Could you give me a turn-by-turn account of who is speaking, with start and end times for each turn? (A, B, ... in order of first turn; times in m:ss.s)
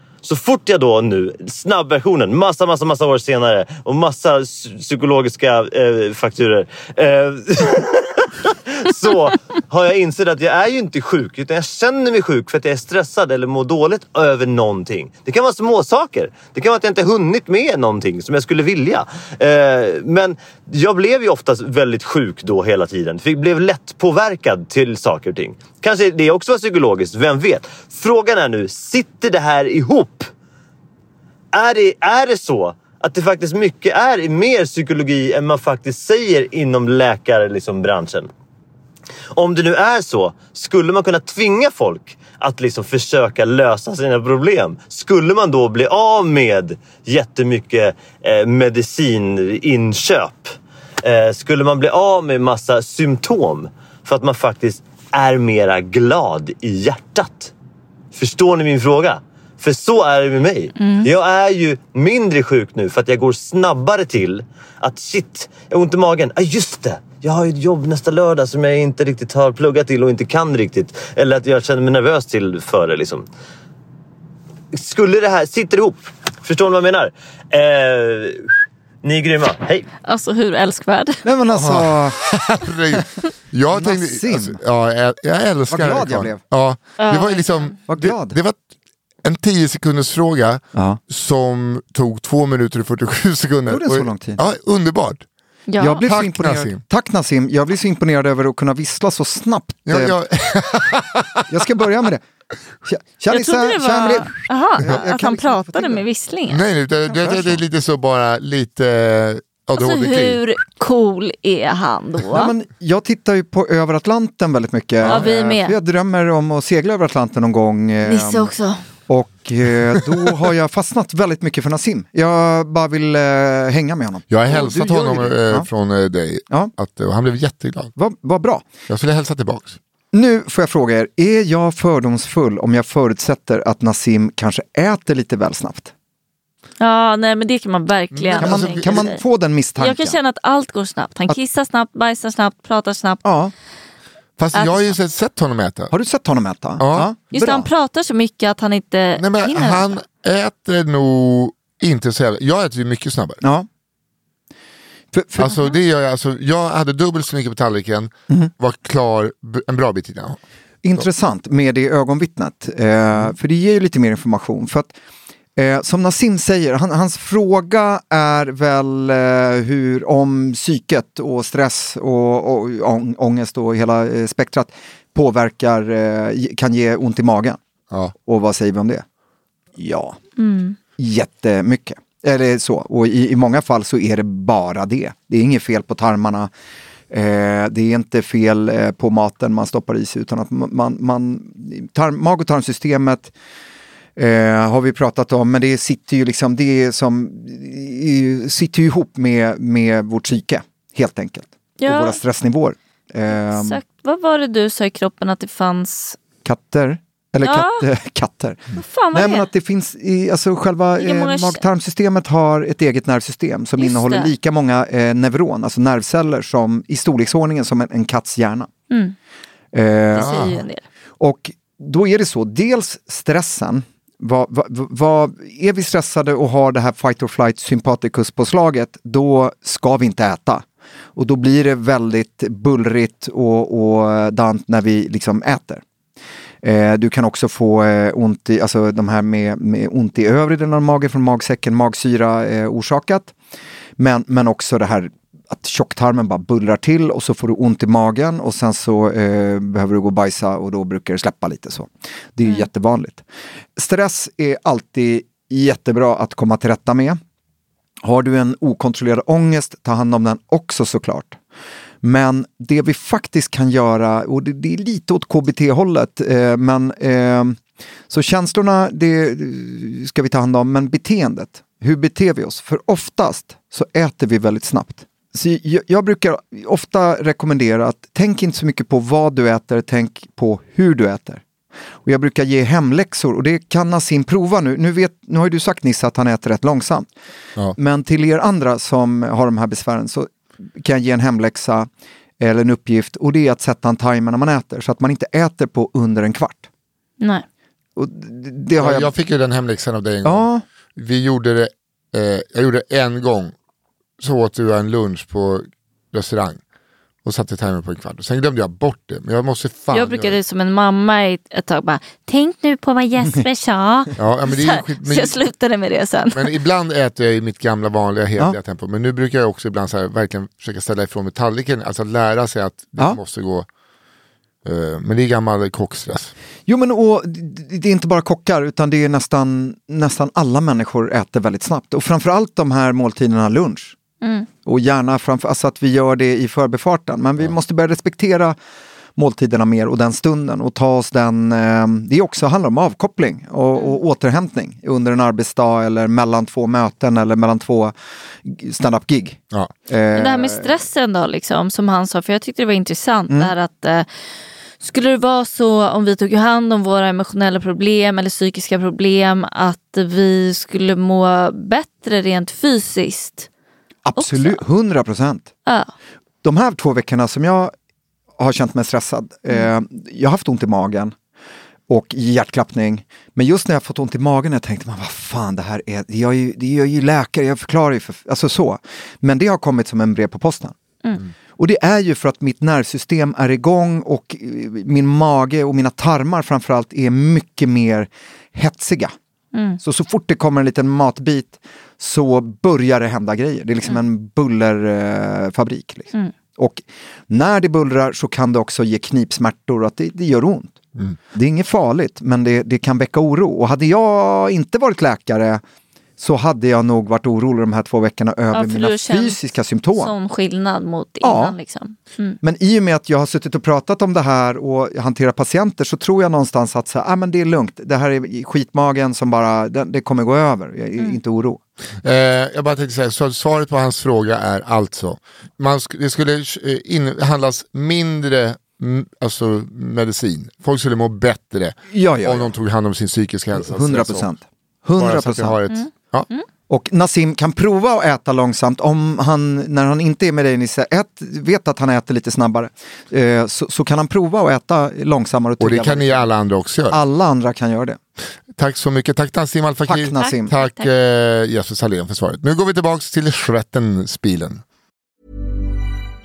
0:00.2-0:30.3 A
0:31.5-0:38.3 A
0:39.3-0:57.5 A
0:58.1-1:13.2 A
1:00.8-1:01.1 B
1:14.7-1:18.5 A
1:19.0-1:19.9 A
1:20.0-1:21.2 B
1:21.2-1:22.2 C
1:21.5-1:28.6 D
1:23.7-1:24.6 C
1:25.7-1:26.4 C
1:27.0-1:27.7 B
1:27.9-1:28.4 C
1:29.2-1:35.2 D
1:30.7-1:31.0 C
1:33.7-1:34.4 C
1:35.7-1:36.0 B
1:35.8-1:40.2 C
1:36.0-1:36.8 D
1:39.9-1:41.4 D
1:41.5-1:42.2 C
1:42.8-1:46.0 C
1:43.3-1:46.6 B
1:46.5-1:50.4 D
1:47.1-1:47.6 C
1:49.8-1:52.5 B
1:52.3-1:58.5 C
1:55.0-1:55.3 D
1:55.1-1:55.8 B
1:58.0-1:58.8 B
1:59.1-2:05.7 C
2:04.3-2:07.9 D
2:08.0-2:08.7 C
2:08.9-2:09.8 D
2:10.1-2:15.9 C
2:16.8-2:19.2 B
2:18.1-2:19.0 D
2:18.4-2:20.2 C
2:19.8-2:23.2 B
2:23.2-2:23.5 C
2:24.4-2:25.9 D
2:24.5-2:24.9 B
2:25.9-2:27.7 C
2:26.8-2:27.1 D
2:27.3-2:29.8 B
2:29.2-2:33.4 D
2:33.4-2:33.7 C
2:35.1-2:35.6 C
2:35.4-2:40.4 D
2:40.8-2:44.9 C
2:45.6-2:57.6 C
2:58.2-2:59.0 C
2:59.8-3:00.2 C
3:00.4-3:00.8 B
3:01.0-3:06.5 C
3:07.1-3:13.3 C
3:14.2-3:23.8 C
3:21.8-3:22.2 B
3:23.3-3:26.2 B
3:26.4-3:38.7 C
3:27.4-3:27.8 B
3:28.8-3:29.5 B
3:31.0-3:31.6 B
3:33.8-3:34.3 B
3:38.9-3:39.1 B
3:39.7-3:40.4 C
3:40.1-3:40.8 B
3:40.2-3:40.6 D
3:41.2-3:50.6 C
3:51.2-3:55.8 C
3:56.6-4:03.3 C
4:04.0-4:13.2 C
4:13.8-4:17.2 C
4:18.0-4:21.4 C
4:22.0-4:41.4 C
4:42.0-4:47.1 C
4:47.8-4:51.9 C
4:52.4-4:56.7 C
4:58.0-4:59.1 C
4:58.8-5:03.5 D
5:00.2-5:00.6 C
5:04.2-5:06.6 D
5:07.2-5:10.4 D
5:09.9-5:16.5 B
5:14.2-5:15.4 D
5:16.3-5:23.7 D
5:24.6-5:26.3 D
5:26.7-5:34.0 C
5:34.2-5:34.5 B
5:34.6-5:38.6 C
5:39.2-5:50.7 C
5:50.1-5:54.1 B
5:54.8-6:03.5 B
6:04.0-6:05.5 C
6:04.2-6:04.6 B
6:05.6-6:05.9 B
6:06.4-6:07.7 C
6:08.4-6:11.1 C
6:11.9-6:20.7 C
6:21.6-6:29.1 C
6:29.5-6:29.8 B
6:29.8-6:40.8 C
6:41.3-6:45.6 C
6:46.2-6:50.1 C
6:48.5-6:49.4 B
6:50.0-6:52.4 B
6:51.2-6:51.6 C
6:52.4-7:01.6 C
7:02.0-7:14.3 D
7:11.9-7:12.5 C
7:13.5-7:15.6 C
7:15.0-7:16.3 D
7:15.7-7:16.4 B
7:16.7-7:26.2 C
7:25.6-7:27.0 D
7:26.9-7:28.0 C
7:28.6-7:34.6 D
7:29.9-7:30.5 C
7:30.2-7:30.9 B